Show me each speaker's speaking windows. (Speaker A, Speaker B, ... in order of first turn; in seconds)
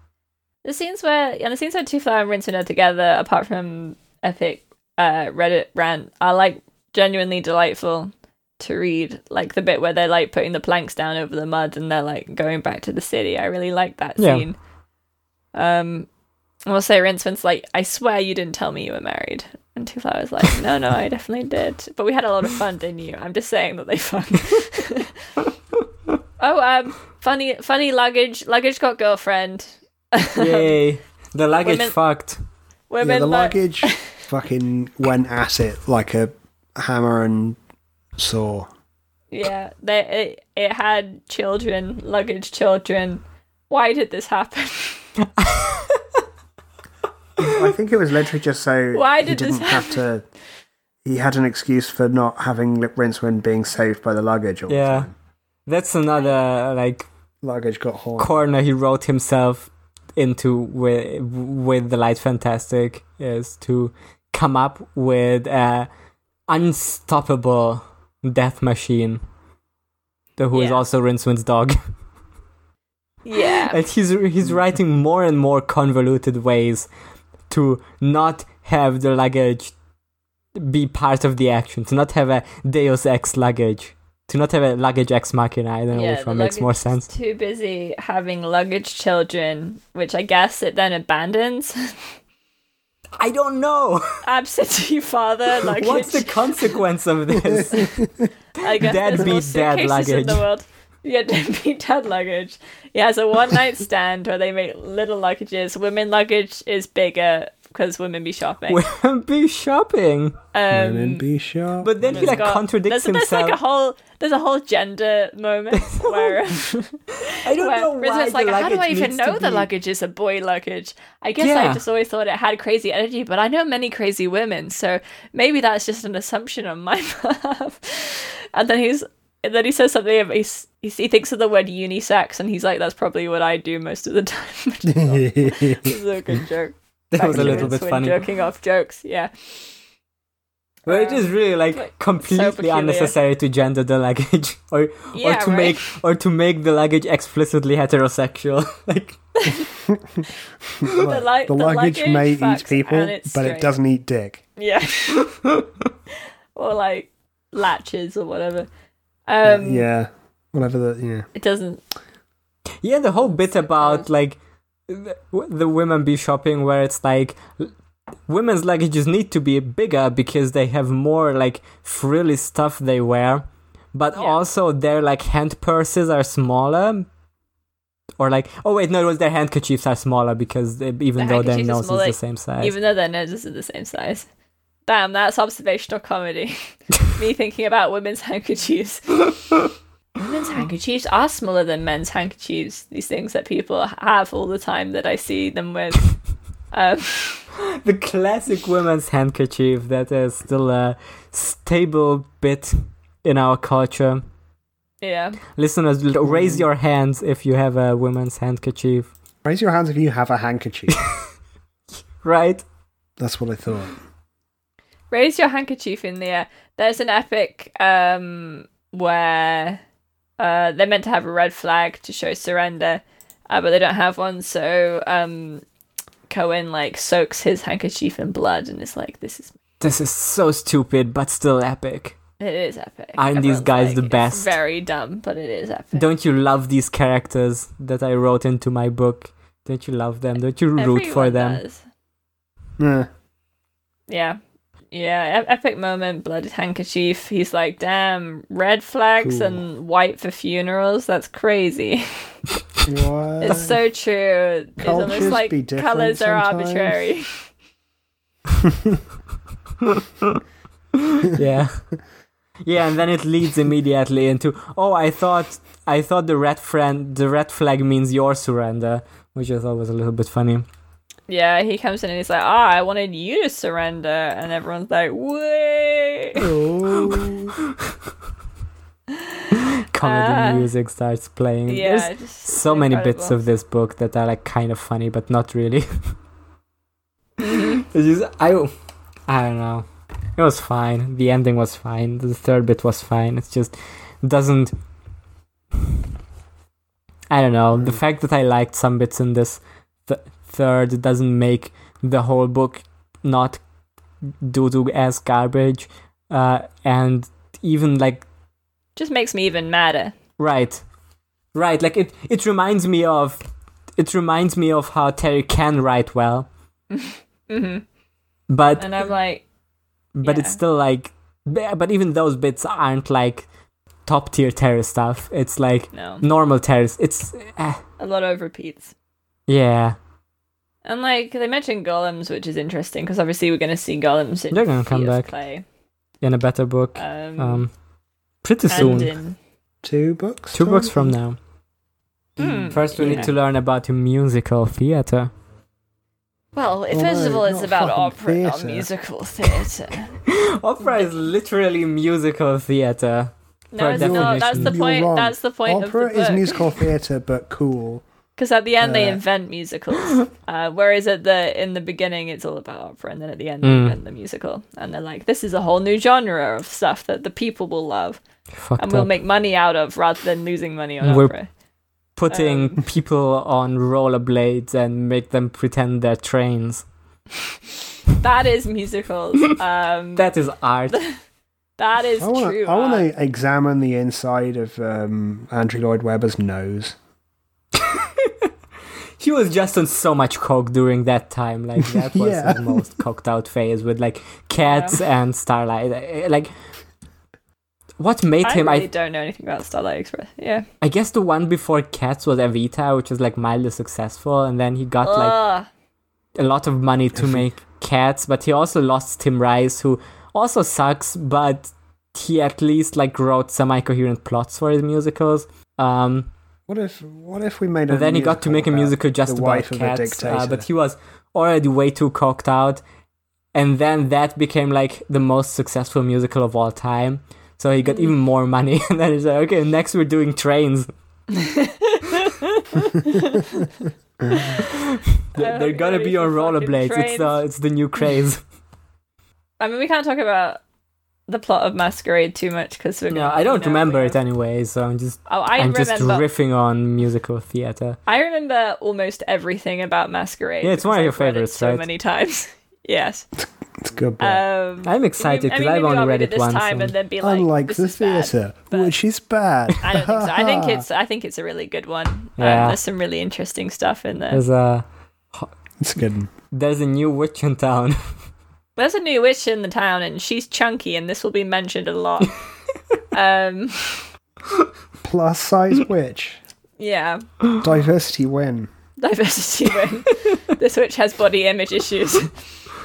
Speaker A: 0.6-14.6, 15.5-16.1, 16.7-25.1, 26.4-30.7, 31.6-32.0, 32.9-34.0, 39.3-45.1, 48.9-50.0, 70.5-70.8, 73.2-73.8, 85.9-91.8, 94.2-96.7, 98.6-108.8, 110.5-111.2, 112.1-117.0, 117.5-139.5, 140.9-143.1, 145.1-145.9, 149.4-149.7, 150.9-153.7, 154.6-155.2, 156.6-158.7, 159.3-159.9, 161.4-161.8, 163.8-164.1, 181.2-184.3, 184.9-189.3, 190.2-196.1, 196.7-197.4, 205.0-205.4, 215.1-219.8, 220.4-225.6, 226.3-229.6, 232.4-236.1, 240.8-241.8, 244.1-244.4, 244.9-252.3, 253.4-257.4, 271.3-276.4, 280.0-280.7, 281.7-283.4, 287.4-287.8, 309.0-310.1, 316.9-317.8, 318.8-319.4, 320.2-320.6, 325.9-326.2, 328.0-328.9, 330.9-335.6, 336.9-337.7, 338.7-339.4, 342.4-343.3, 346.6-350.1, 353.7-356.6, 358.4-368.2, 368.8-371.5, 372.3-372.8, 378.2-380.3, 380.9-381.2, 381.8-383.1, 394.7-395.0, 398.4-400.7, 405.0-405.7, 431.4-433.7, 434.3-434.7, 435.4-437.4, 439.6-440.6, 441.3-444.2, 445.3-446.3, 448.1-453.3, 454.2-458.9, 459.8-464.4, 468.8-472.3, 473.1-474.1, 476.8-477.2, 479.0-482.3
Speaker B: 14.2-14.4, 30.4-32.4, 45.4-46.0, 54.7-55.1, 55.7-57.1, 58.2-65.9, 66.5-69.2, 70.4-71.8, 73.7-76.9, 77.5-79.7, 80.6-87.1, 93.2-94.2, 95.7-98.1, 98.8-100.5, 108.7-110.4, 111.8-113.6, 115.8-116.4, 117.3-119.7, 121.4-121.8, 137.1-138.2, 140.9-149.2, 155.2-155.6, 162.8-167.7, 168.3-177.1, 178.2-182.8, 197.6-204.2, 205.6-209.1, 212.2-212.6, 229.8-232.2, 233.2-234.6, 235.9-241.6, 259.8-260.4, 261.0-261.9, 262.6-270.6, 279.9-285.9, 287.4-288.7, 289.3-289.9, 290.4-294.7, 297.3-303.6, 304.4-308.2, 310.4-310.8, 311.5-313.4, 314.0-316.5, 318.5-319.1, 320.1-323.5, 324.1-327.8, 329.5-330.0, 334.5-335.3, 336.2-337.7, 338.4-339.1, 340.5-341.4, 342.7-345.3, 350.3-354.8, 363.6-364.0, 368.6-369.1, 371.0-371.3, 372.2-376.9, 380.2-381.0, 387.8-388.4, 389.2-396.5, 398.0-398.9, 400.8-405.4, 406.4-416.3, 417.9-422.8, 423.5-430.9, 435.3-438.4, 443.1-448.0, 450.6-451.9, 454.9-456.9, 462.4-462.8, 464.3-465.5, 466.5-468.0
Speaker C: 33.0-37.6, 38.2-38.7, 47.4-50.2, 51.0-55.1, 57.4-58.3, 97.5-98.1, 110.7-112.5, 134.9-136.0, 137.3-137.7, 149.9-150.2, 150.8-154.4, 159.4-161.3, 206.2-206.6, 209.4-211.0, 213.2-214.0, 242.8-243.1, 249.2-249.6, 252.8-253.8, 254.8-257.0, 276.4-277.6, 297.7-298.0, 339.8-341.1, 343.0-343.2, 346.9-348.9, 353.9-358.1, 358.8-359.2, 382.2-387.0, 391.8-392.8, 407.2-407.5, 416.7-420.7, 453.4-454.4, 457.2-460.8, 465.8-466.3, 475.0-476.4, 477.6-478.7